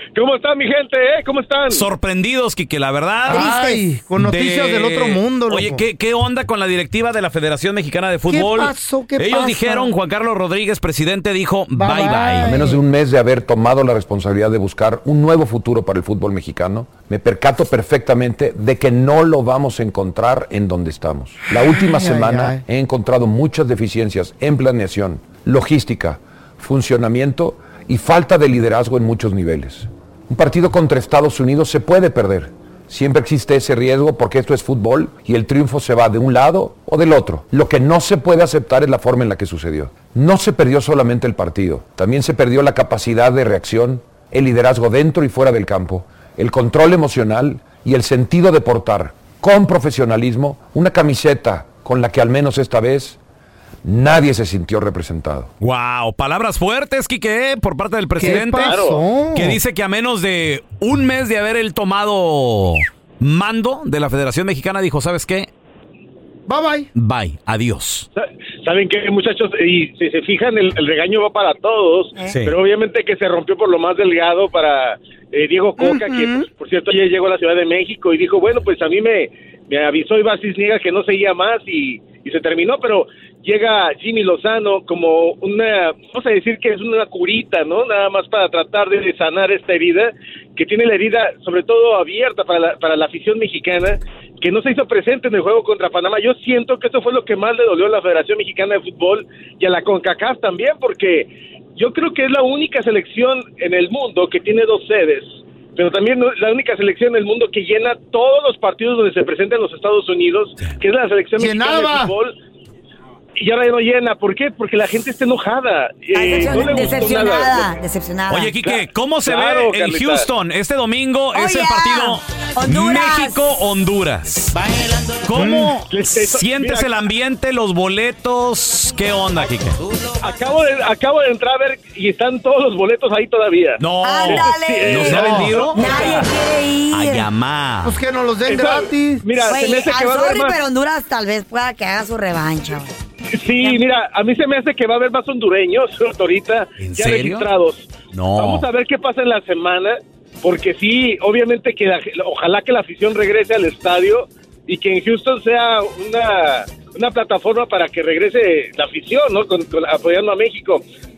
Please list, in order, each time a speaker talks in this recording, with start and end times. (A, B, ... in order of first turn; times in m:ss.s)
0:00.1-0:01.8 A
0:01.7-0:12.6 B
0:03.3-0:05.8 C
0:08.3-0:09.9 C
0:11.7-0:12.8 C
0:12.4-0:53.2 D
0:21.5-0:22.6 C
0:53.8-0:55.5 D
0:55.6-0:58.8 B
0:58.2-0:59.6 C
0:58.3-0:59.0 A
0:59.3-1:05.5 B
1:06.5-1:06.9 C
1:06.9-1:08.1 B
1:08.2-1:52.4 A
1:15.8-1:16.5 C
1:51.4-1:52.1 C
1:53.4-1:57.7 A
1:56.1-1:58.6 E
1:58.3-2:09.8 B
1:58.6-2:00.3 A
2:01.3-2:03.4 E
2:05.3-2:05.7 C
2:05.9-2:06.9 A
2:10.2-2:16.3 A
2:13.8-2:16.2 B
2:14.0-2:17.3 E
2:16.9-2:18.0 B
2:17.8-2:19.2 C
2:18.4-2:20.6 A
2:19.4-2:22.9 E
2:23.3-2:40.8 A
2:23.6-2:23.8 E
2:26.8-2:27.5 B
2:28.1-2:28.6 B